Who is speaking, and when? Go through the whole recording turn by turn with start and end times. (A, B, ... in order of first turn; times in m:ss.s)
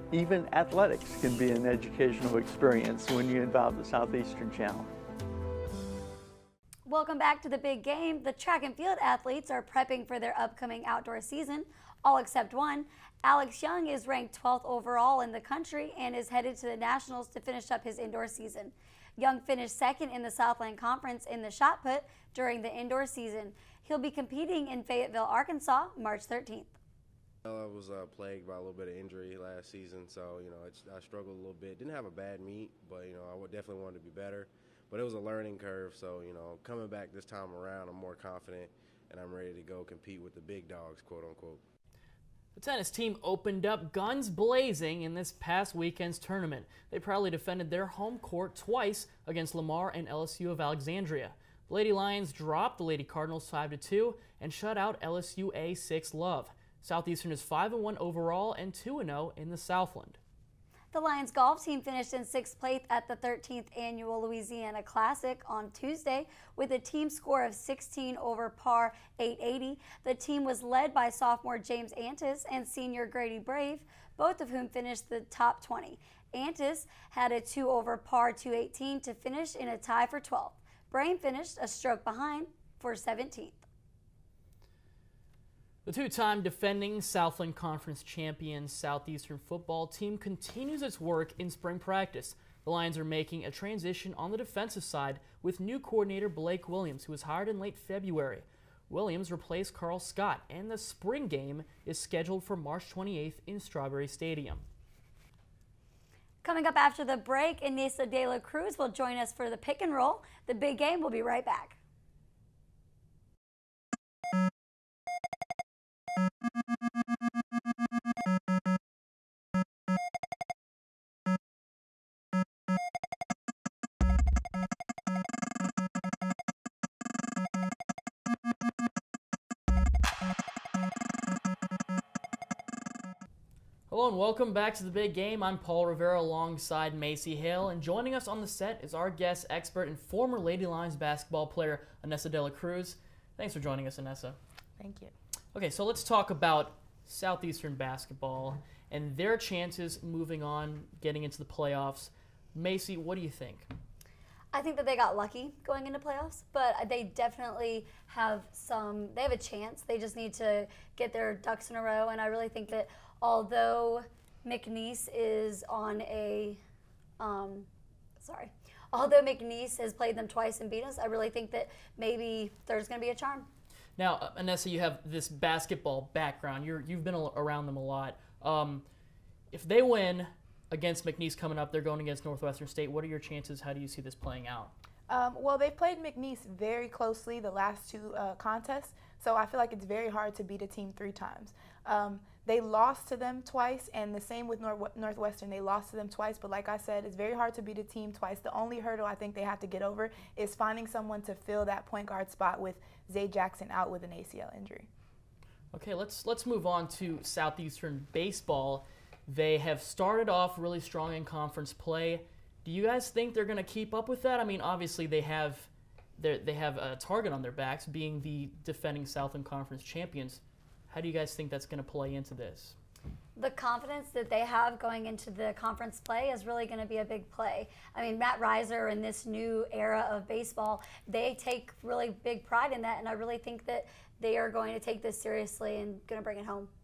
0:00.1-0:04.9 A
0:06.9-0:26.8 B
0:27.4-0:41.6 C
0:42.6-1:00.2 D
1:00.9-1:23.7 B
1:25.8-1:44.6 D
1:46.4-1:51.8 B
2:13.9-2:24.4 D
2:24.8-2:25.1 E
2:25.5-2:33.7 D
2:34.5-2:46.6 B
2:47.2-2:47.7 B
2:48.2-2:53.5 B
2:54.0-2:58.9 D
2:59.5-3:04.7 D
3:05.1-3:24.9 E
3:25.7-3:42.8 D
3:43.4-3:56.7 B